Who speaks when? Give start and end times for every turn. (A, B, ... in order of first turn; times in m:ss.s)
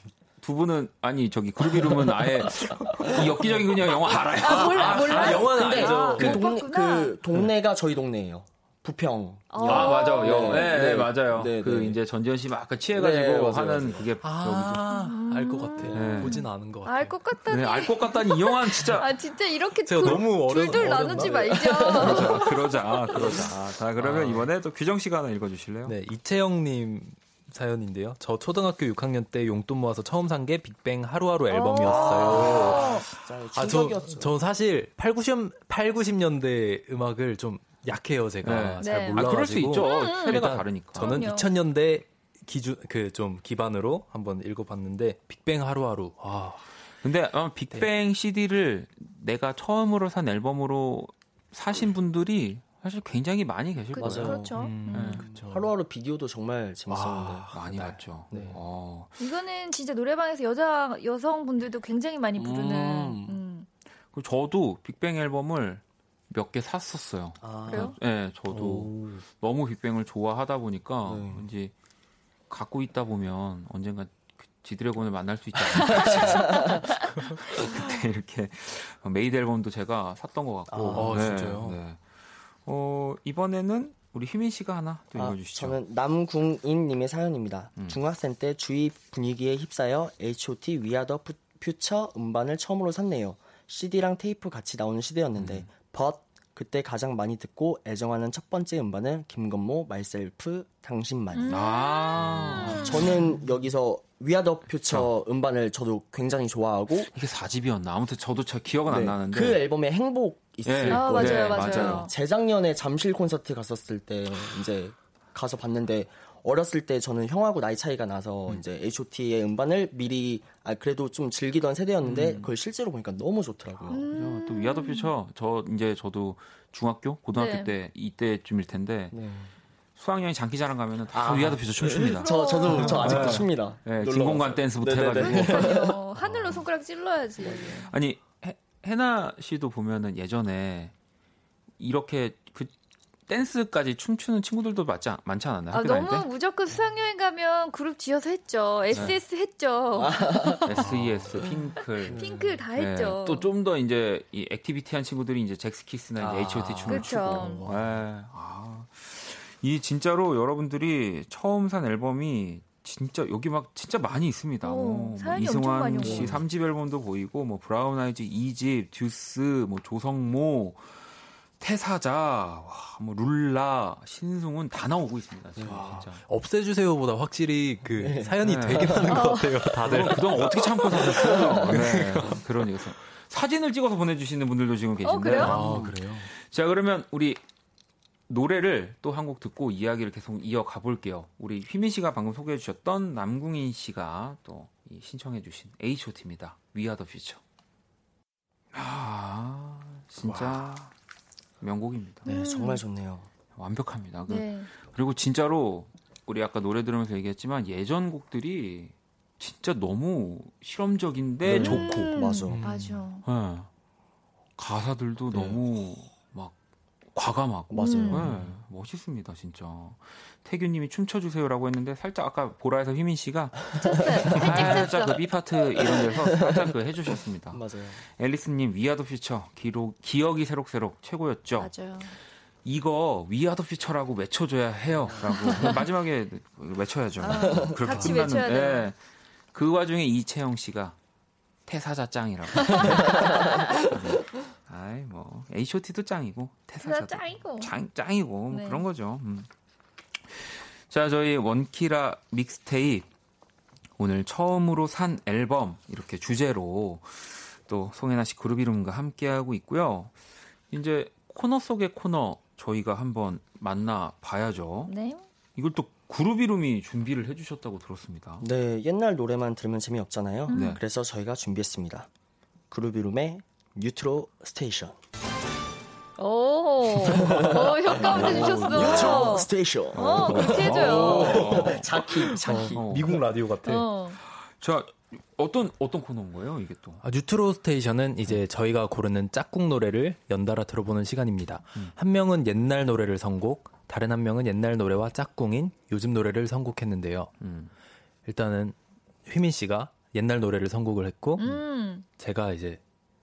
0:00.4-0:06.4 A
0:04.4-0:07.2 B
0:04.4-0:06.4 C
0:04.6-0:12.0 D
0:09.5-0:10.7 B
0:09.6-0:14.8 A
0:12.9-0:14.1 D
0:14.2-0:17.2 C
0:14.9-0:22.6 B
0:15.8-0:16.2 D
0:15.9-0:16.3 A
0:17.5-0:19.2 A
0:19.8-0:21.7 C
0:21.2-0:22.6 D
0:22.0-0:26.0 A
0:24.0-0:24.5 C
0:25.8-0:46.6 C
0:31.5-0:33.0 B
0:31.8-0:34.4 D
0:38.4-0:41.3 A
0:38.8-0:41.6 B
0:47.0-0:55.2 A
0:53.9-0:55.2 B
0:54.0-0:54.6 D
0:54.5-0:55.7 C
0:55.1-0:57.5 D
0:56.9-0:59.2 A
0:56.9-0:58.6 C
0:59.2-1:03.7 B
1:02.4-1:03.4 D
1:04.1-1:11.7 A
1:07.4-1:07.9 D
1:07.7-1:08.0 B
1:08.5-1:09.2 C
1:11.0-1:11.4 D
1:12.5-1:22.0 A
1:15.7-1:16.8 D
1:16.4-1:17.0 B
1:20.7-1:21.4 D
1:20.9-1:21.8 C
1:22.6-1:25.8 A
1:25.1-1:41.6 D
1:35.3-1:35.7 A
1:41.3-1:43.3 B
1:41.5-1:43.1 A
1:42.2-1:47.1 D
1:44.8-1:45.1 A
1:47.1-1:49.6 A
1:48.9-2:04.0 D
1:50.6-1:52.1 A
1:50.9-1:52.1 B
2:02.0-2:02.5 C
2:02.0-2:02.5 A
2:03.9-2:05.1 B
2:03.9-2:09.2 A
2:07.3-2:07.7 B
2:09.1-2:09.5 D
2:10.0-2:15.9 A
2:11.1-2:16.4 D
2:12.1-2:13.3 B
2:12.8-2:13.3 C
2:15.2-2:17.9 B
2:17.6-2:20.9 A
2:21.8-2:22.7 A
2:23.3-2:26.3 A
2:25.7-2:30.8 B
2:28.9-2:29.2 A
2:30.0-2:31.4 D
2:30.6-2:56.2 A
2:30.8-2:31.2 C
2:32.0-2:32.6 D
2:32.1-2:33.5 B
2:36.2-2:37.7 C
2:36.9-2:37.6 B
2:37.1-2:37.9 D
2:44.6-2:46.4 B
2:46.0-2:46.4 D
2:55.6-2:56.1 D
2:55.7-3:02.4 C
2:58.0-2:59.3 D
2:58.4-2:59.0 A
2:59.1-2:59.8 B
2:59.8-3:07.4 A
3:01.3-3:01.7 D
3:05.0-3:05.6 B
3:05.4-3:06.2 D
3:05.4-3:06.3 C
3:08.3-3:17.4 A
3:18.7-3:20.9 A
3:20.2-3:20.7 C
3:21.6-3:22.3 A
3:22.2-3:22.8 B
3:22.2-3:23.3 D
3:23.5-3:32.2 A
3:24.3-3:24.7 B
3:31.4-3:32.6 D
3:31.6-3:33.2 B
3:32.5-3:33.0 C
3:33.2-3:33.7 A
3:34.6-3:36.6 A
3:35.3-3:35.6 D
3:37.1-3:52.1 A
3:37.7-3:38.3 D
3:37.8-3:38.3 B
3:43.8-3:45.2 B
3:43.8-3:44.9 D
3:45.7-3:48.0 D
3:51.6-3:52.1 B
3:52.6-3:59.0 A
3:55.3-3:55.8 B
3:57.2-3:58.9 B
3:57.3-3:58.2 D
3:59.5-4:01.0 A
4:01.6-4:09.5 A
4:02.8-4:04.2 D
4:06.8-4:07.7 B
4:08.5-4:08.8 B
4:10.3-4:13.1 A
4:14.0-4:20.1 A
4:20.7-4:24.9 A
4:24.9-4:25.2 B
4:25.5-4:28.4 A
4:28.4-4:32.1 D
4:30.5-4:30.8 B
4:30.5-4:30.8 A
4:32.7-4:35.0 D
4:36.2-4:41.6 B
4:37.0-4:43.2 D
4:38.0-4:39.2 A
4:38.3-4:39.2 C
4:39.9-4:43.2 A
4:40.4-4:41.8 C
4:42.4-4:43.9 C
4:43.6-4:44.2 B
4:44.1-4:47.0 A
4:47.0-4:57.3 C
4:57.4-4:57.7 A
4:58.2-5:01.4 C
5:01.4-5:02.1 B
5:02.1-5:02.8 C